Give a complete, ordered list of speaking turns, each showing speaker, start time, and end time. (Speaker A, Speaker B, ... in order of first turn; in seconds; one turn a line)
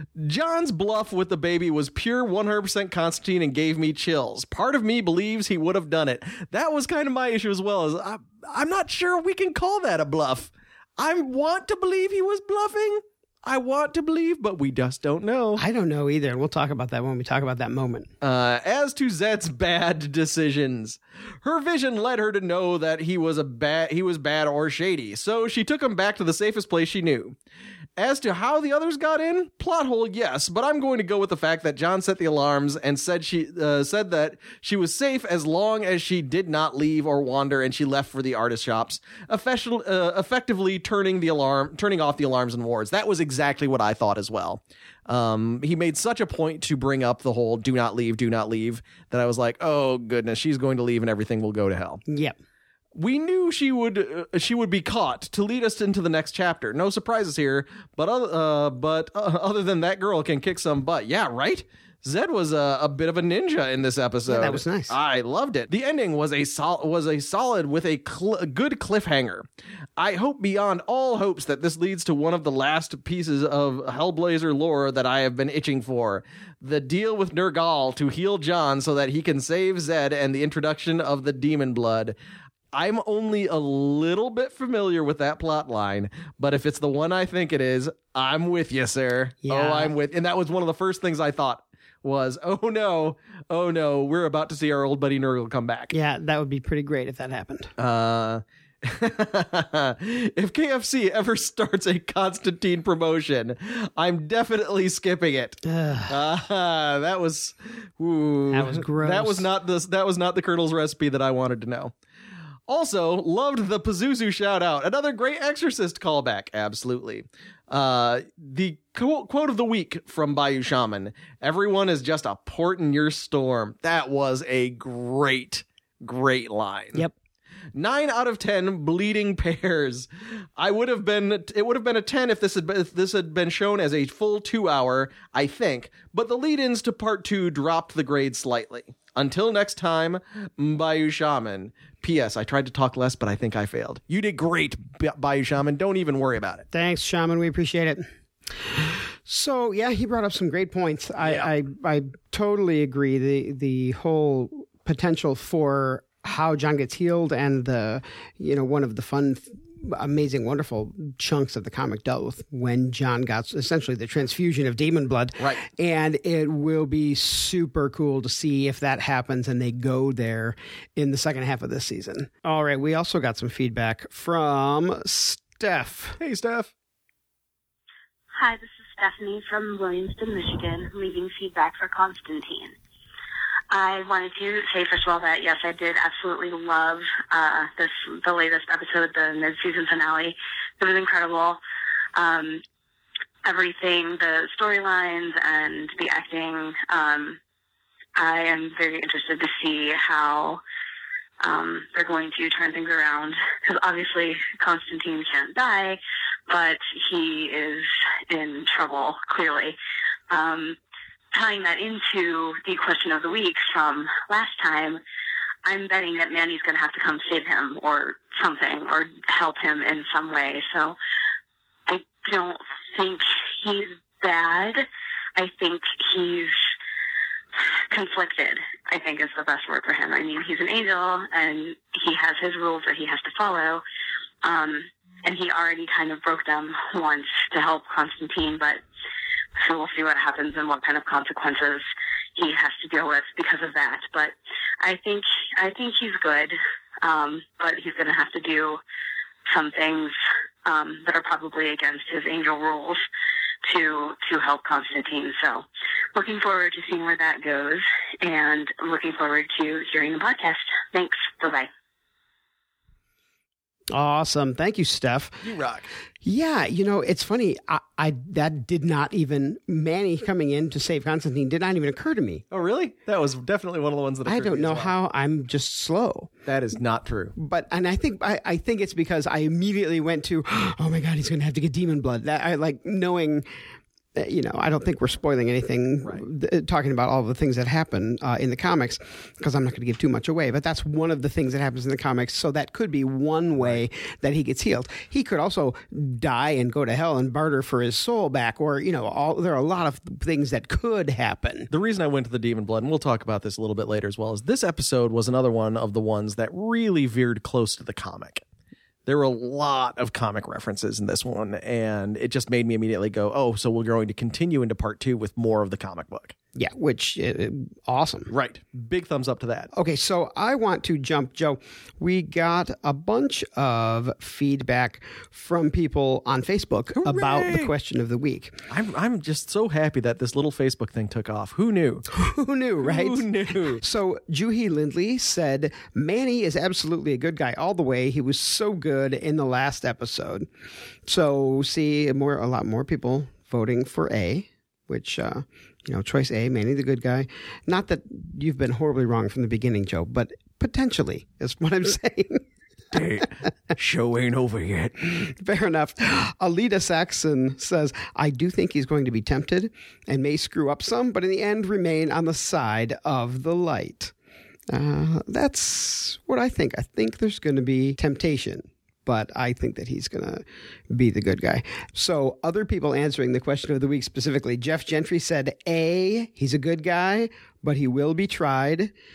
Speaker A: 0.2-15.6
Speaker B: 15.6-18.1
Speaker A: 18.2-27.3
Speaker A: 28.0-52.0
Speaker B: 52.1-52.4
Speaker A: 52.9-69.4
Speaker B: 64.3-65.0
Speaker A: 70.0-82.2
Speaker A: 82.7-95.9
Speaker B: 89.4-89.9
Speaker B: 95.9-97.7
Speaker A: 97.8-111.9
Speaker B: 105.6-106.2
Speaker B: 108.5-109.5
Speaker A: 112.7-127.1
Speaker A: 127.7-146.7
Speaker B: 146.7-148.1
Speaker B: 148.6-176.2
Speaker A: 176.2-176.7
Speaker C: 178.3-182.7
Speaker C: 183.7-191.6
Speaker C: 192.1-192.6
Speaker C: 193.4-197.4
Speaker C: 198.2-200.6
Speaker C: 201.4-209.8
Speaker C: 210.3-210.8
Speaker C: 211.3-215.0
Speaker C: 215.6-221.0
Speaker C: 221.9-226.6
Speaker C: 227.7-233.8
Speaker C: 234.4-238.8
Speaker C: 239.6-241.8
Speaker C: 242.3-248.8
Speaker C: 249.5-250.1
Speaker C: 250.6-253.0
Speaker C: 253.6-261.7
Speaker B: 263.9-265.4
Speaker A: 265.4-265.9
Speaker B: 266.2-272.4
Speaker A: 272.5-274.9
Speaker B: 274.2-276.3
Speaker A: 276.4-277.3
Speaker B: 277.4-283.4
Speaker B: 284.1-301.7
Speaker A: 301.7-308.4
Speaker A: 309.1-316.3
Speaker B: 316.6-318.3
Speaker A: 318.3-319.7
Speaker B: 319.7-328.6
Speaker A: 327.0-327.7
Speaker A: 328.7-332.1
Speaker B: 332.1-340.5
Speaker A: 332.8-333.8
Speaker B: 341.1-352.4
Speaker A: 352.9-355.1
Speaker B: 355.1-364.1
Speaker B: 364.7-378.9